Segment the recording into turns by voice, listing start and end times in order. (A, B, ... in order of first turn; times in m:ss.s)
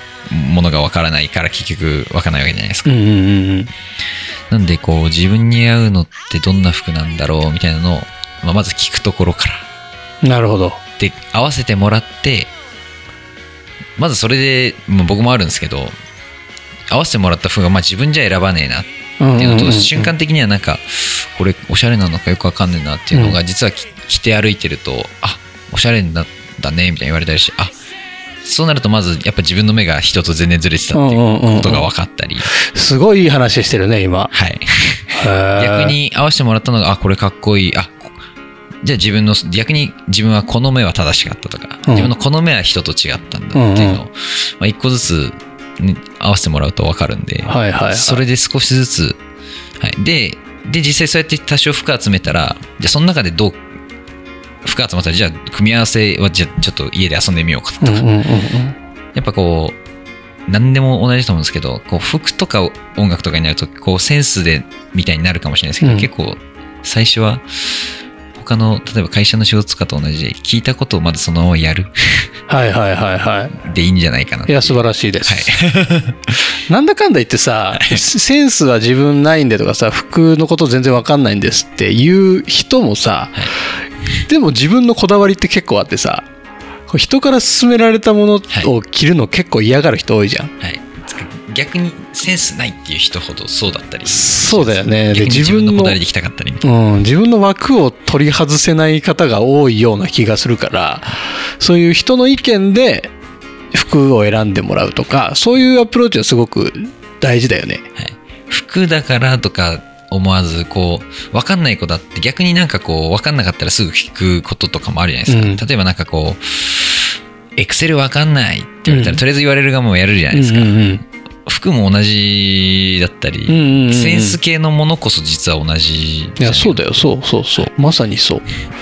0:00.3-0:02.9 A
0:02.8-0:03.7 B
0:04.5-0:09.6 A
0:10.2-0:10.8 B
0:11.0-0:12.5 A
0:14.0-0:15.9 A
0:16.9-0:27.7 A
0:19.2-0:20.1 B
0:28.4-0:32.5 A
0:30.9-0:31.9 B
0:32.6-0:34.3 B
0:34.3-0:38.1 A
0:35.1-0:36.0 B
0:38.8-0:49.2 A
0:41.8-0:42.1 B
0:43.5-0:44.0 B
0:47.5-0:48.2 B
0:49.8-0:53.6 A
0:54.6-0:58.1 A
0:57.8-0:58.8 B
0:59.1-0:59.8 A
1:00.5-1:07.4 A
1:05.8-1:06.1 B
1:08.3-1:12.3 A
1:12.5-1:13.6 B
1:13.6-1:16.4 A
1:14.4-1:15.5 B
1:16.7-1:23.5 B
1:17.7-1:18.0 A
1:24.3-1:26.2 B
1:26.9-1:30.5 B
1:30.6-1:36.7 A
1:34.0-1:36.0 B
1:36.6-1:43.1 B
1:43.7-1:47.8 B
1:48.0-2:00.9 A
1:55.3-1:55.6 B
1:58.9-1:59.2 B
2:00.3-2:01.0 B
2:01.4-2:06.9 A
2:03.5-2:04.4 B
2:06.4-2:08.4 B